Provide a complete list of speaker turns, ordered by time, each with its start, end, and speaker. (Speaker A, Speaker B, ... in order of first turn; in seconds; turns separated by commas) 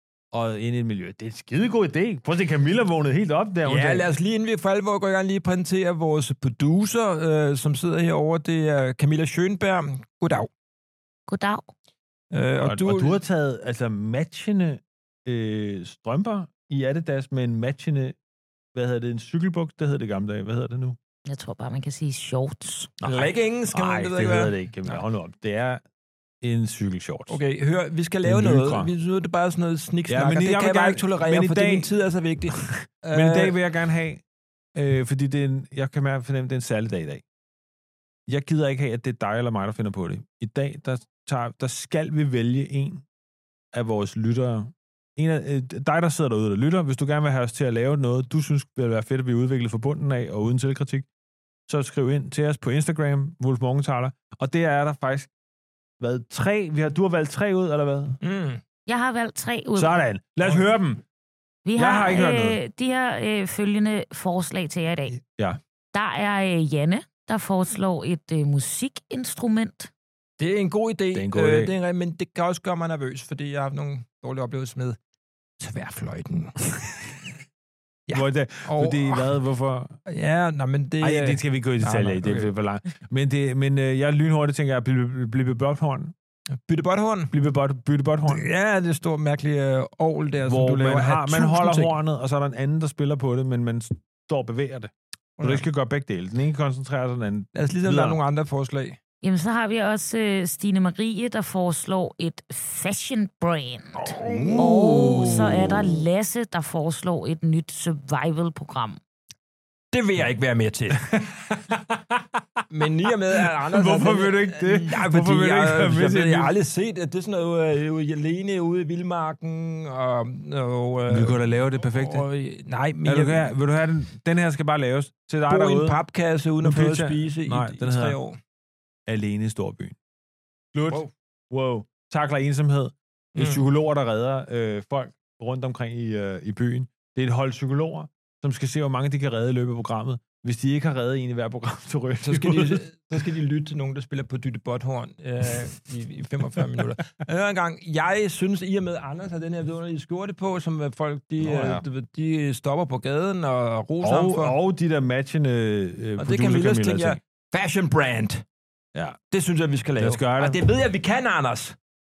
Speaker A: 0.3-4.1, Speaker B: 3.6-10.5, Speaker C: 11.3-11.7, Speaker B: 12.3-13.2, Speaker A: 12.6-18.2, Speaker A: 18.7-21.0, Speaker C: 21.2-22.9, Speaker A: 23.0-25.8, Speaker B: 23.0-25.0, Speaker A: 26.4-27.4, Speaker B: 27.3-33.5, Speaker A: 28.2-28.9, Speaker A: 30.1-31.9, Speaker A: 32.5-34.2, Speaker A: 34.7-37.2, Speaker A: 38.3-43.0, Speaker A: 43.7-51.0, Speaker A: 51.7-55.3, Speaker A: 56.0-58.2, Speaker B: 58.2-58.6, Speaker C: 58.9-59.9, Speaker A: 59.7-61.0, Speaker C: 61.6-65.2, Speaker A: 61.8-62.6, Speaker C: 65.9-69.9, Speaker B: 70.4-75.0, Speaker A: 71.1-71.7, Speaker B: 75.6-76.6, Speaker B: 78.1-79.3, Speaker A: 78.1-80.0, Speaker B: 80.1-82.5, Speaker A: 81.0-86.1, Speaker B: 86.6-87.3, Speaker A: 87.3-88.4, Speaker B: 88.3-91.9, Speaker A: 90.4-98.2, Speaker B: 95.4-95.7, Speaker B: 97.5-99.0, Speaker C: 99.2-109.0, Speaker B: 103.9-105.3, Speaker A: 104.3-106.0, Speaker B: 109.9-111.0, Speaker A: 111.0-112.4, Speaker B: 112.7-123.5, Speaker A: 113.4-116.5, Speaker A: 121.1-122.2, Speaker A: 123.0-126.0, Speaker B: 125.5-128.4, Speaker A: 126.6-128.2, Speaker A: 129.1-129.9, Speaker A: 130.7-142.8, Speaker B: 133.3-133.6, Speaker B: 142.2-154.5, Speaker A: 151.4-151.8, Speaker A: 154.0-157.2, Speaker B: 156.2-158.4, Speaker B: 159.3-161.8, Speaker A: 160.0-160.6